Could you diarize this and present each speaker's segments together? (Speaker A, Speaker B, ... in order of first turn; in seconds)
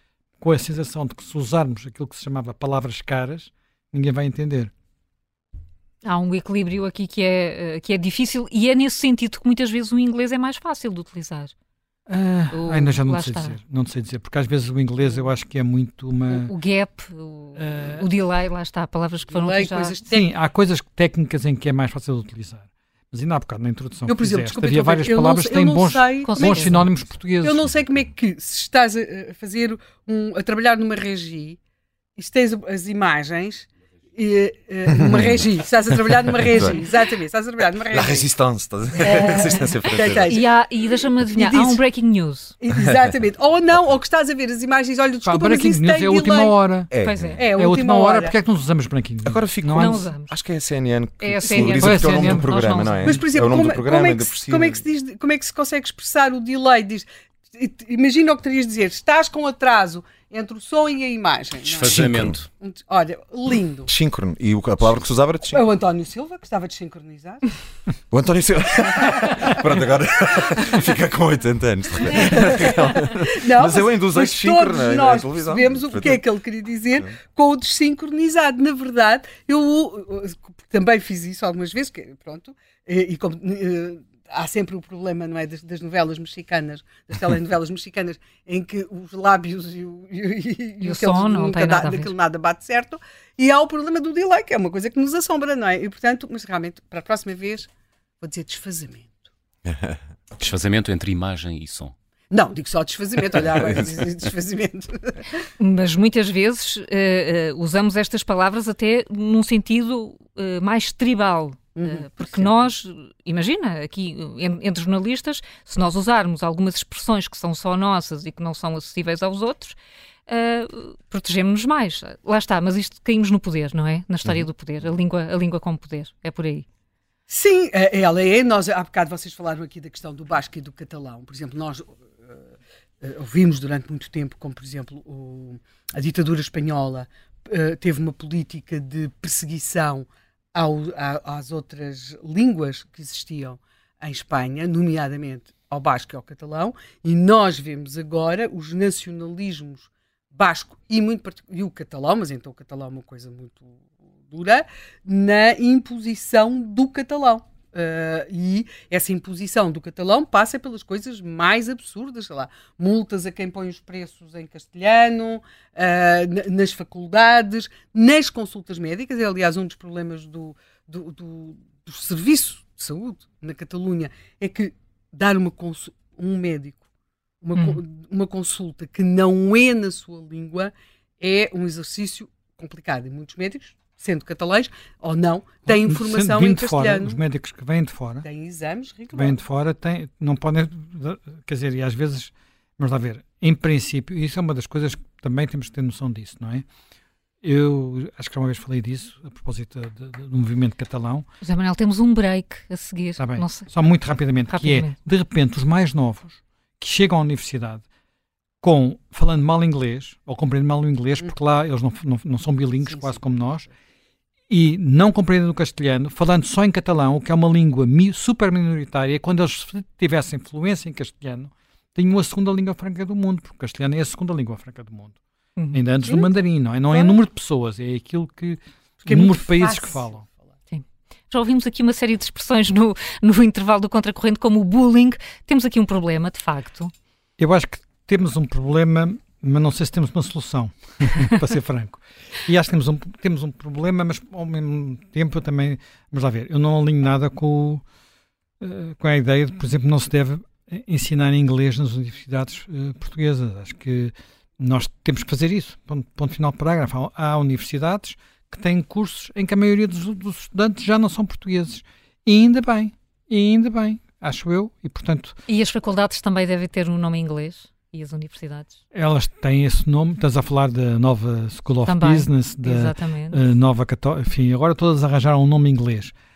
Speaker A: 0.4-4.7, 12.1-16.5, 17.6-18.1, 20.1-27.7, 45.2-46.9, 47.5-50.0, 51.8-52.5, 185.7-188.3, 189.1-196.7, 197.4-201.3, 203.2-207.8, 208.6-213.7, 214.5-225.2, 225.7-230.2, 237.4-247.8, 248.6-265.4, 268.9-276.1
Speaker B: 6.0-11.5, 12.5-13.6, 16.3-19.9, 26.2-26.9, 40.2-42.5, 47.0-47.4, 49.7-50.3, 51.2-53.2, 90.8-92.1, 105.6-119.8, 120.3-126.6, 177.6-177.8, 201.4-203.7, 204.5-204.9, 225.6-225.8, 230.7-236.9, 265.5-268.8, 271.9-273.4
Speaker C: 19.3-20.2, 24.1-31.6, 32.2-38.3, 38.9-41.8, 42.6-46.5, 47.4-48.3, 51.5-51.7, 53.0-63.9, 65.5-67.6, 68.9-69.9, 72.1-97.7, 98.2-99.2, 102.3-105.5, 111.8-112.5, 127.3-132.4, 133.0-176.8, 177.4-187.2, 188.2-189.4, 212.8-213.7, 226.0-226.3, 229.0-230.5
Speaker D: 36.4-36.8, 37.9-40.3, 46.9-47.4, 49.3-54.8, 61.8-62.4, 63.9-65.6, 68.1-76.2, 99.6-100.0, 103.4-104.1
Speaker E: 61.7-62.5, 100.4-101.9